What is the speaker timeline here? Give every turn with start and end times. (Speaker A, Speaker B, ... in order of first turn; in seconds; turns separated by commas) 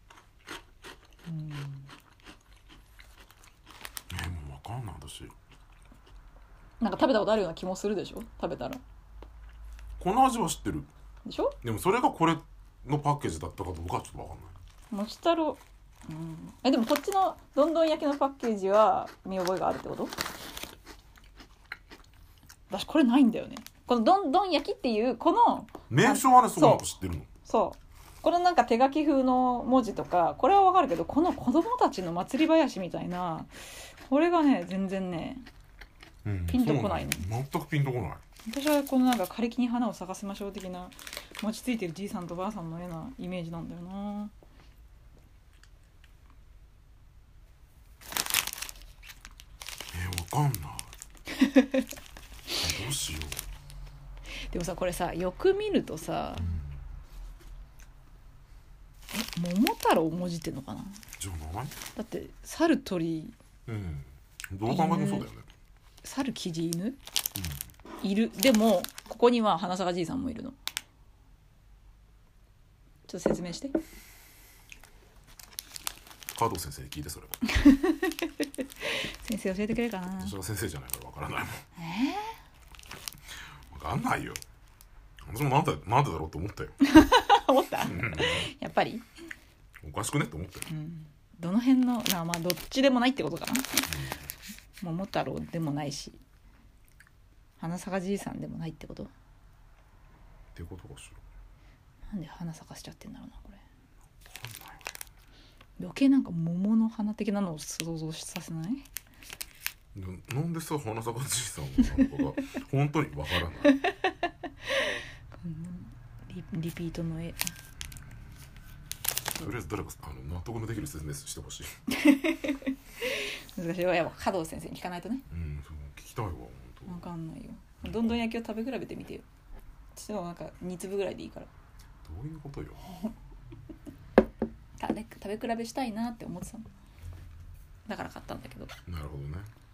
Speaker A: 1.3-1.9, Speaker B: 4.1-5.3, Speaker A: 6.8-8.8, Speaker B: 10.0-10.9, Speaker A: 11.3-11.6, Speaker B: 11.6-14.5, Speaker A: 14.9-20.1, Speaker A: 22.7-26.8, Speaker B: 25.9-27.3, Speaker A: 27.4-33.5, Speaker A: 34.0-35.5, Speaker B: 36.2-38.2, Speaker A: 36.5-37.2, Speaker A: 38.5-44.3, Speaker B: 49.9-50.9, Speaker A: 51.3-51.9, Speaker B: 52.6-53.4, Speaker A: 54.5-56.6, Speaker B: 56.4-56.7, Speaker A: 59.1-61.0, Speaker B: 61.2-61.8, Speaker A: 62.0-63.4, Speaker B: 63.7-65.5, Speaker A: 64.7-65.3, Speaker A: 66.0-67.0, Speaker A: 68.0-70.6, Speaker A: 73.1-73.8, Speaker B: 76.3-77.4, Speaker A: 77.5-80.3, Speaker B: 80.2-81.6, Speaker A: 81.8-82.4, Speaker B: 83.7-84.4, Speaker B: 85.2-86.8, Speaker A: 86.8-89.0, Speaker B: 87.8-88.5, Speaker B: 89.8-90.7, Speaker A: 90.7-93.9, Speaker B: 93.9-94.3, Speaker A: 94.8-96.2, Speaker A: 97.6-99.1, Speaker B: 100.5-101.2, Speaker A: 102.1-103.6, Speaker B: 104.2-104.9, Speaker A: 105.8-108.9, Speaker B: 109.9-113.8, Speaker A: 113.7-117.5, Speaker B: 119.3-121.7, Speaker A: 121.9-125.2, Speaker B: 125.3-127.1, Speaker A: 126.9-129.3, Speaker B: 127.8-128.2, Speaker A: 129.9-131.5, Speaker B: 132.0-132.9, Speaker A: 134.8-136.7, Speaker A: 137.9-138.7, Speaker B: 138.9-139.5